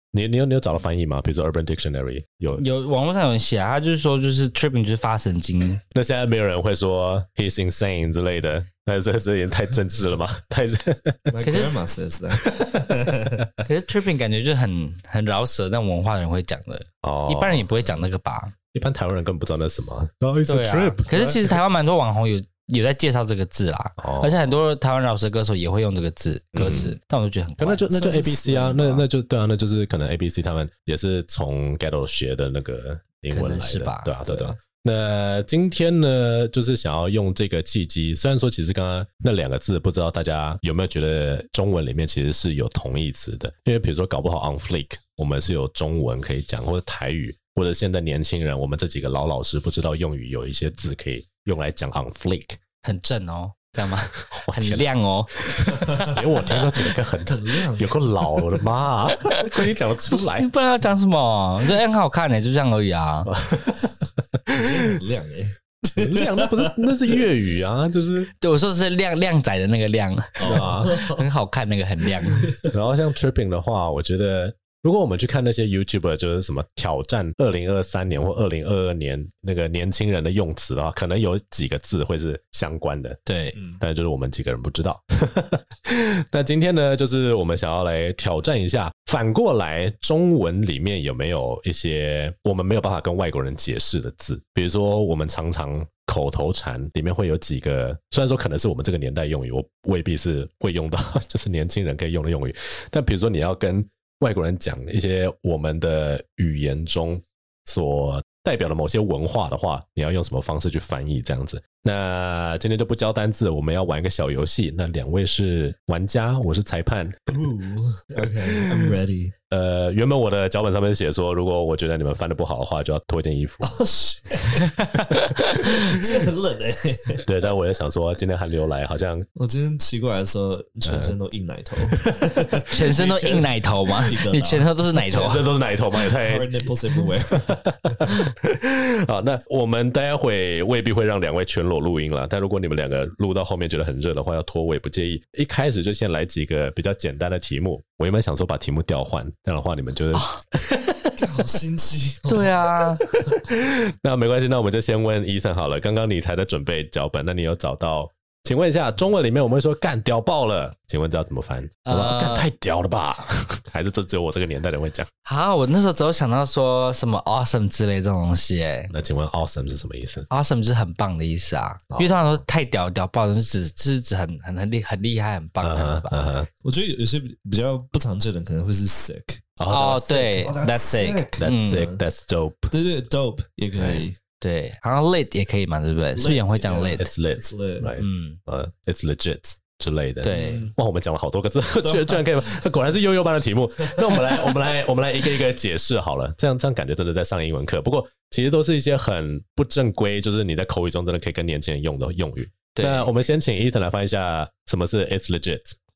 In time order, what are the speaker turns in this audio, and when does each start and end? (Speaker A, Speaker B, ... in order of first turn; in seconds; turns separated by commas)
Speaker A: 0.1-2.6, Speaker B: 2.6-5.8, Speaker A: 5.9-11.3, Speaker C: 11.3-13.5, Speaker B: 11.4-11.8, Speaker A: 12.4-12.9, Speaker B: 13.6-18.5, Speaker A: 17.0-17.7, Speaker A: 18.7-21.6, Speaker B: 20.5-27.9, Speaker A: 24.0-24.4, Speaker A: 26.5-26.9, Speaker A: 27.6-52.6, Speaker C: 27.9-29.1, Speaker B: 33.3-34.1, Speaker C: 34.3-34.6, Speaker B: 52.8-56.1, Speaker A: 54.4-60.5, Speaker C: 55.9-56.1, Speaker C: 57.2-58.5, Speaker B: 60.2-63.3, Speaker A: 63.2-64.9, Speaker C: 64.5-67.2, Speaker A: 66.0-68.3, Speaker B: 68.4-72.6, Speaker C: 70.4-71.3, Speaker A: 70.5-70.9, Speaker C: 72.4-72.7, Speaker A: 72.7-83.2, Speaker B: 83.3-83.6, Speaker C: 83.5-83.8, Speaker A: 83.8-117.2, Speaker C: 117.3-119.3, Speaker A: 119.5-123.8, Speaker C: 123.6-124.7, Speaker B: 124.7-126.0, Speaker C: 125.6-127.2, Speaker A: 127.3-129.3, Speaker C: 129.4-134.7, Speaker A: 130.8-131.1, Speaker A: 132.0-132.6, Speaker B: 132.7-135.5, Speaker A: 135.1-136.5, Speaker C: 136.1-137.9, Speaker A: 137.3-151.2, Speaker C: 151.2-152.7, Speaker B: 152.3-153.0, Speaker A: 153.1-165.1, Speaker B: 161.9-162.5, Speaker B: 165.2-168.9, Speaker A: 168.9-170.3, Speaker B: 170.3-176.3, Speaker A: 171.9-172.4, Speaker A: 175.6-176.5, Speaker C: 176.6-182.0, Speaker A: 179.6-180.0, Speaker B: 179.7-181.9, Speaker A: 181.4-182.7, Speaker C: 182.7-184.2, Speaker B: 184.4-187.1, Speaker C: 186.2-187.9, Speaker A: 187.0-205.8, Speaker B: 188.0-188.4, Speaker B: 190.2-190.7, Speaker C: 190.3-190.8, Speaker C: 191.8-192.8, Speaker C: 193.9-194.5, Speaker B: 202.8-203.1